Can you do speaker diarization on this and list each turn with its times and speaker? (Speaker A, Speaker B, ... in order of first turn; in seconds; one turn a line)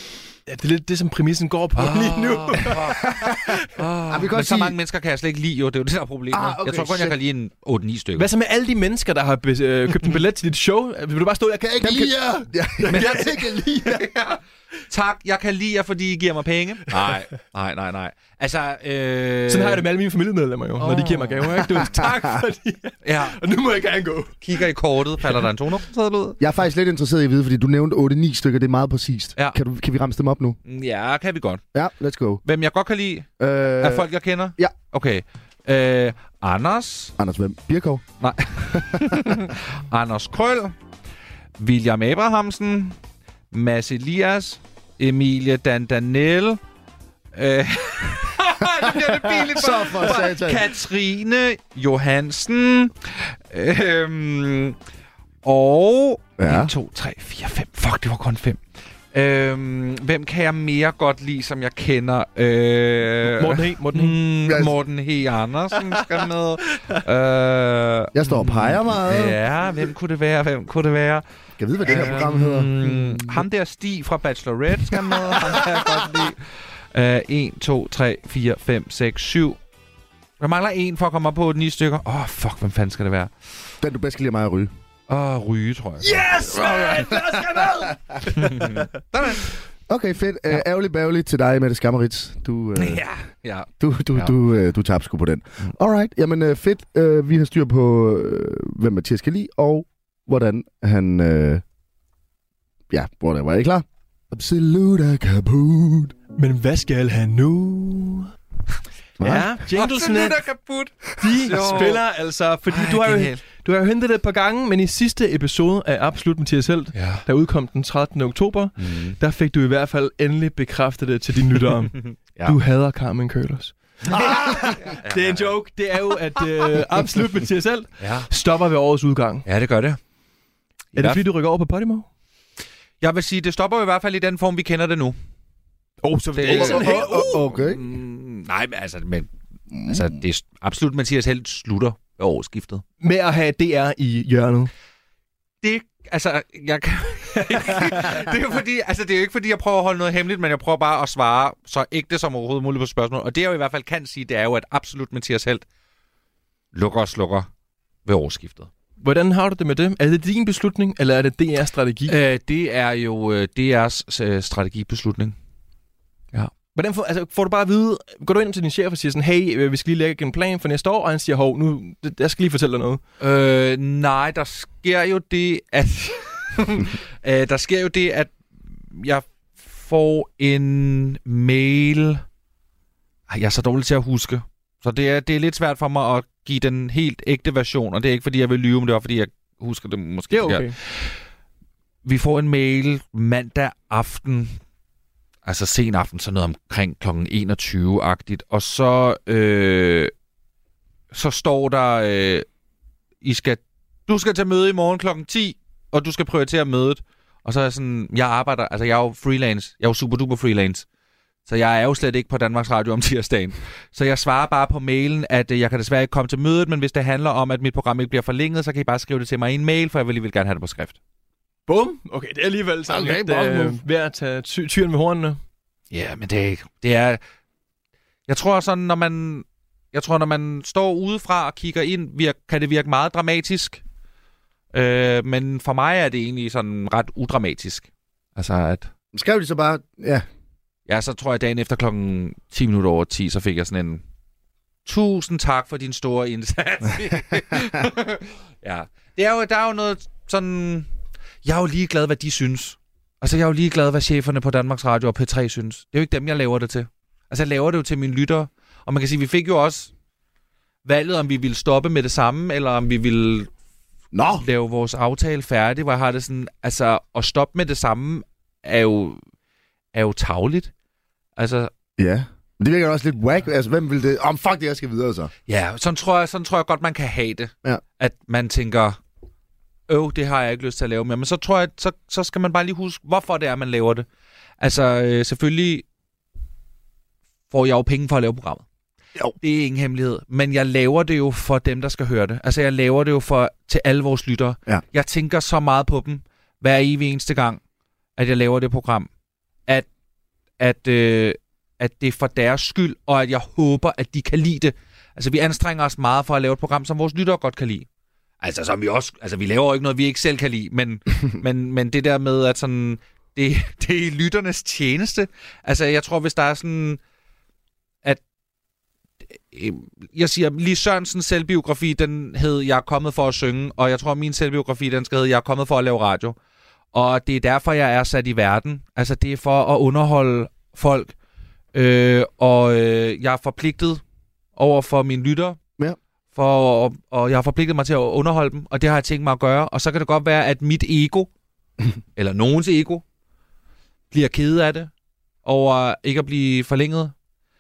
Speaker A: 0.5-3.6
Speaker B: 1.8-8.3
Speaker C: 3.0-3.5
Speaker C: 4.1-4.8
Speaker C: 6.3-7.2
Speaker A: 8.2-14.1
Speaker C: 11.8-13.8
Speaker B: 12.9-13.2
Speaker B: 13.8-19.8
Speaker A: 19.5-24.4
Speaker B: 20.8-21.9
Speaker C: 21.8-22.2
Speaker B: 23.0-23.4
Speaker B: 24.4-26.4
Speaker C: 26.4-30.6
Speaker B: 30.7-31.6
Speaker C: 31.7-32.4
Speaker B: 32.4-33.3
Speaker C: 33.4-34.7
Speaker B: 33.8-37.1
Speaker C: 37.2-38.0
Speaker B: 38.2-40.7
Speaker C: 38.7-39.5
Speaker B: 41.6-43.0
Speaker B: 43.5-46.6
Speaker B: 47.3-54.8
Speaker C: 48.6-50.7
Speaker B: 55.4-58.6
Speaker C: 56.4-56.7
Speaker B: 59.1-71.2
Speaker A: 63.2-64.2
Speaker C: 64.5-64.7
Speaker C: 68.1-69.4
Speaker C: 71.6-73.4
Speaker B: 71.8-76.4
Speaker C: 74.9-76.2
Speaker B: 76.9-79.6
Speaker B: 80.4-83.3
Speaker C: 83.8-84.7
Speaker B: 85.1-86.2
Speaker A: 86.0-88.9
Speaker C: 86.5-88.2
Speaker B: 88.3-89.5
Speaker C: 89.9-93.0
Speaker B: 92.8-94.4
Speaker C: 93.8-101.6
Speaker C: 102.9-106.2
Speaker A: 106.4-108.3
Speaker C: 109.2-109.5
Speaker A: 109.2-110.4
Speaker B: 109.7-112.0
Speaker A: 111.2-129.5
Speaker B: 112.7-113.4
Speaker B: 117.0-117.2
Speaker B: 118.8-119.2
Speaker B: 122.0-122.6
Speaker B: 124.8-125.5
Speaker B: 128.0-128.3
Speaker B: 129.4-130.0
Speaker B: 130.9-131.2
Speaker A: 130.9-132.1
Speaker B: 133.0-135.2
Speaker A: 136.0-137.4
Speaker B: 136.4-139.3
Speaker C: 136.5-137.8
Speaker C: 139.7-140.1
Speaker B: 139.9-142.8
Speaker A: 143.0-144.7
Speaker B: 145.6-155.7
Speaker B: 156.7-157.5
Speaker B: 158.1-158.7
Speaker A: 159.0-162.2
Speaker B: 162.1-165.3
Speaker A: 166.7-173.0
Speaker B: 173.2-178.3
Speaker B: 178.9-182.2
Speaker B: 183.3-191.1
Speaker A: 190.3-190.8
Speaker B: 192.1-194.6
Speaker B: 195.4-200.1
Speaker B: 201.1-202.5
Speaker B: 203.2-210.8
Speaker B: 211.5-221.0
Speaker A: 221.7-225.4
Speaker C: 222.9-223.8
Speaker B: 225.9-227.2
Speaker B: 228.3-233.8
Speaker B: 234.7-238.9
Speaker C: 239.1-240.3
Speaker B: 240.9-244.0
Speaker B: 244.9-250.9
Speaker B: 251.4-259.9
Speaker B: 260.9-263.5
Speaker C: 264.1-264.4
Speaker B: 264.3-269.2
Speaker B: 269.9-270.7
Speaker B: 271.4-271.7
Speaker C: 272.0-275.3
Speaker B: 275.5-279.0
Speaker B: 279.9-284.1
Speaker B: 284.6-285.9
Speaker B: 287.5-288.6
Speaker B: 289.4-297.6
Speaker B: 298.2-299.1
Speaker B: 300.6-307.9
Speaker B: 308.4-317.0
Speaker B: 319.4-326.4
Speaker B: 326.9-331.1
Speaker B: 331.7-334.0
Speaker B: 334.6-335.6
Speaker B: 336.3-341.3
Speaker B: 342.2-343.0
Speaker B: 344.1-344.9
Speaker B: 345.4-347.1